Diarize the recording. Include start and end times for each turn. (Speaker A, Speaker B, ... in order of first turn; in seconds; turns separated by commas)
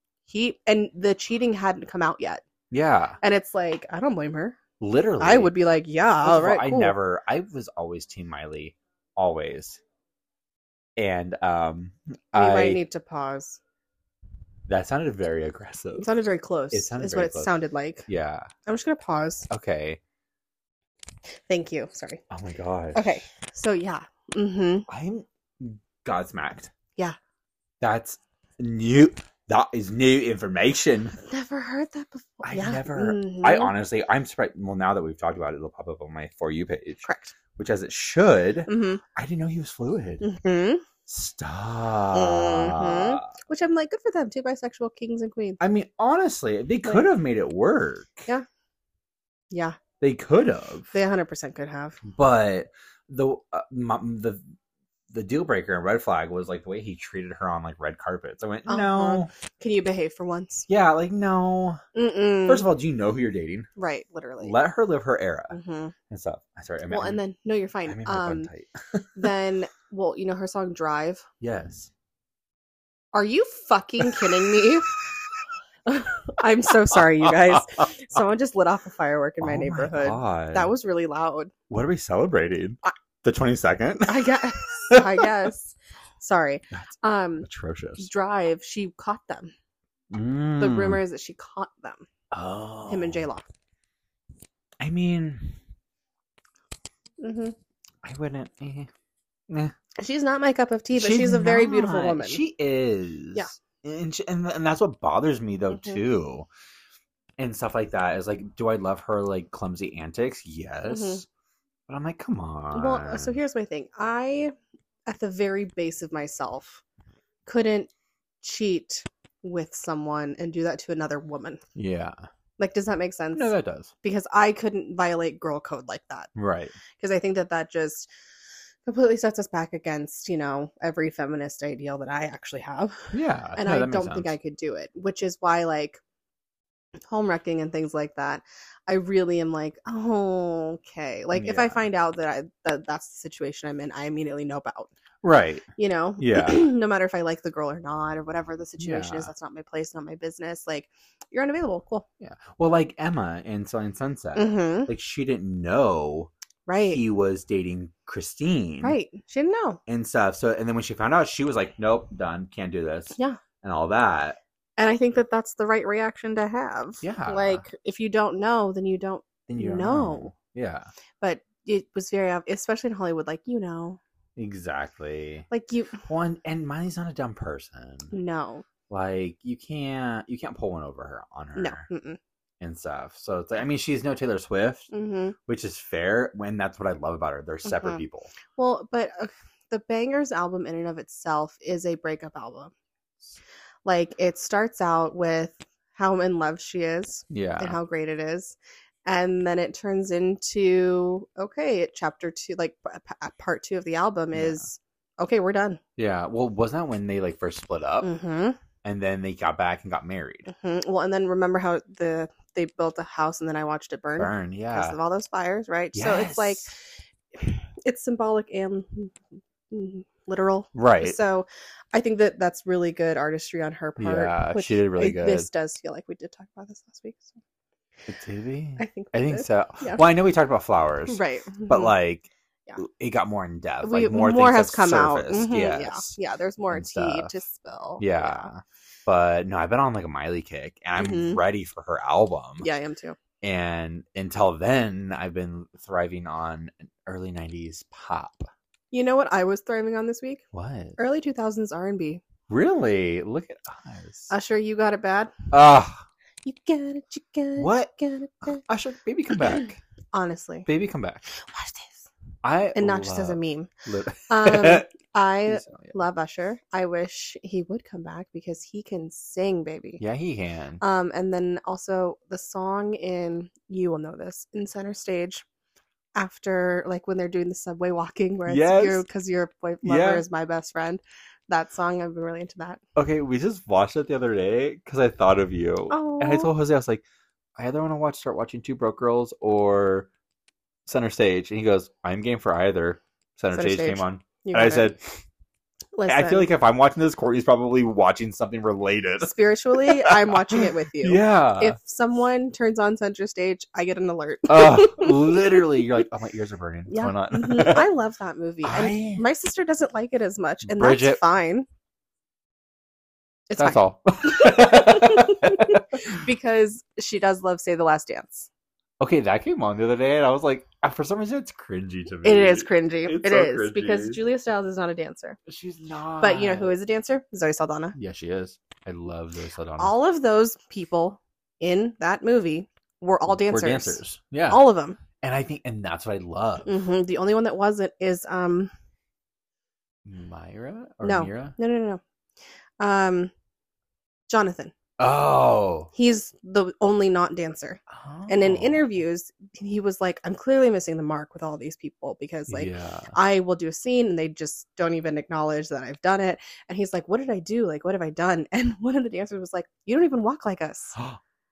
Speaker A: 0.2-2.4, Speaker B: 2.7-3.2, Speaker A: 3.2-4.6, Speaker B: 4.8-5.5, Speaker A: 5.2-6.9, Speaker B: 6.2-9.8, Speaker B: 11.0-12.8, Speaker A: 12.3-13.6, Speaker B: 14.7-16.1, Speaker A: 16.0-18.1, Speaker B: 16.7-17.5, Speaker B: 18.1-18.5, Speaker A: 18.6-19.5, Speaker B: 19.5-20.0, Speaker A: 21.5-22.2, Speaker B: 22.3-23.2, Speaker A: 22.9-24.9, Speaker B: 24.9-26.7, Speaker B: 27.8-31.2, Speaker A: 31.2-33.7, Speaker B: 32.4-37.0, Speaker A: 37.0-37.3, Speaker B: 37.5-40.2, Speaker A: 38.7-39.0, Speaker A: 40.2-40.8, Speaker B: 41.1-43.3, Speaker A: 42.1-45.6, Speaker B: 45.6-48.3, Speaker A: 49.5-49.8, Speaker B: 50.0-50.9, Speaker A: 50.9-52.0, Speaker B: 52.0-54.4, Speaker B: 55.1-59.3, Speaker A: 58.7-60.7, Speaker B: 60.7-61.8, Speaker A: 61.9-62.7, Speaker B: 62.5-63.7, Speaker A: 63.8-64.5, Speaker B: 64.4-65.5, Speaker A: 65.5-65.9, Speaker B: 66.1-67.2, Speaker A: 66.9-68.5, Speaker B: 67.8-69.3, Speaker A: 69.1-71.2, Speaker B: 71.4-71.9, Speaker A: 73.1-74.9, Speaker B: 74.1-74.5, Speaker A: 75.8-81.5, Speaker B: 76.9-77.8, Speaker B: 79.4-80.7, Speaker B: 81.7-85.3, Speaker A: 84.1-87.5, Speaker B: 87.4-88.1, Speaker A: 88.0-89.5, Speaker B: 90.1-91.0, Speaker A: 90.6-92.1, Speaker B: 92.3-93.3, Speaker A: 92.9-93.5, Speaker B: 94.8-95.6, Speaker A: 97.2-97.5, Speaker B: 98.0-98.9, Speaker B: 99.5-99.7, Speaker A: 100.0-102.4, Speaker B: 100.9-106.5, Speaker A: 105.7-106.0, Speaker B: 107.4-111.3, Speaker A: 110.9-111.2, Speaker B: 111.9-113.4, Speaker A: 112.7-114.5, Speaker A: 115.1-116.8, Speaker A: 117.5-117.9, Speaker A: 118.4-121.6, Speaker B: 121.7-122.2, Speaker A: 122.6-126.3, Speaker B: 123.3-123.9, Speaker B: 126.3-126.8, Speaker A: 126.9-128.1, Speaker A: 128.8-136.0, Speaker B: 133.1-134.3, Speaker A: 137.1-144.9, Speaker B: 141.3-141.8, Speaker B: 145.2-145.6, Speaker A: 145.8-152.1, Speaker B: 146.2-146.7, Speaker B: 148.8-149.3, Speaker B: 152.2-159.0, Speaker A: 154.3-154.9, Speaker A: 156.7-157.0, Speaker A: 158.8-159.8, Speaker B: 159.9-164.4, Speaker A: 164.8-170.3, Speaker B: 167.0-167.6, Speaker B: 169.5-170.9, Speaker A: 171.2-174.0, Speaker B: 174.3-175.5, Speaker A: 175.5-176.0, Speaker B: 176.0-178.1, Speaker A: 178.1-178.6, Speaker B: 178.9-181.9, Speaker A: 181.6-182.2, Speaker B: 182.6-184.9, Speaker A: 184.9-185.3, Speaker B: 185.4-188.3, Speaker A: 187.6-188.0, Speaker A: 188.5-192.7, Speaker A: 193.8-205.8, Speaker B: 197.3-197.8, Speaker B: 204.3-204.7, Speaker B: 206.0-208.1, Speaker A: 208.0-208.6, Speaker B: 208.8-210.5, Speaker A: 210.5-216.7, Speaker B: 214.2-215.0, Speaker B: 215.9-216.7, Speaker A: 217.3-219.2, Speaker A: 219.7-227.4, Speaker B: 220.7-221.2, Speaker B: 224.0-225.5, Speaker B: 228.1-232.3, Speaker A: 228.8-230.0, Speaker A: 231.1-231.9, Speaker B: 232.8-236.2, Speaker A: 233.8-238.5, Speaker B: 236.7-237.3, Speaker B: 238.0-242.7, Speaker A: 241.0-241.4, Speaker A: 242.6-243.2, Speaker B: 243.4-248.5, Speaker A: 248.9-250.4, Speaker B: 250.5-251.0, Speaker A: 251.0-252.2, Speaker B: 252.5-254.3, Speaker A: 254.3-255.3, Speaker B: 255.5-256.0, Speaker A: 256.4-258.6, Speaker B: 257.6-257.9, Speaker B: 258.6-259.8, Speaker A: 260.1-260.7, Speaker B: 260.6-261.3, Speaker A: 261.3-262.1, Speaker B: 262.4-264.9, Speaker A: 262.7-263.7, Speaker A: 264.3-270.0, Speaker B: 265.4-265.9, Speaker B: 270.0-270.8, Speaker A: 270.8-275.4, Speaker A: 276.1-282.8, Speaker B: 278.5-279.0, Speaker B: 279.8-280.2, Speaker B: 282.9-287.0, Speaker A: 285.9-286.5, Speaker B: 287.6-290.1, Speaker B: 290.9-295.2, Speaker A: 293.5-294.9, Speaker A: 295.9-296.5, Speaker B: 296.1-301.8, Speaker A: 299.2-305.8, Speaker B: 304.5-307.9, Speaker A: 306.9-311.7, Speaker B: 308.6-309.2, Speaker B: 310.6-311.2, Speaker A: 313.5-318.5, Speaker B: 313.6-316.2, Speaker B: 319.0-324.2, Speaker A: 322.2-325.4, Speaker B: 325.4-326.8, Speaker A: 326.2-327.9, Speaker B: 327.9-329.9, Speaker A: 329.8-335.0, Speaker B: 333.2-334.6, Speaker B: 335.2-336.8, Speaker A: 336.6-338.7, Speaker B: 340.0-341.6, Speaker A: 341.0-342.0, Speaker A: 342.8-343.3, Speaker A: 344.3-344.7, Speaker B: 345.0-345.9, Speaker A: 345.9-361.0, Speaker B: 347.9-348.9, Speaker B: 352.5-353.1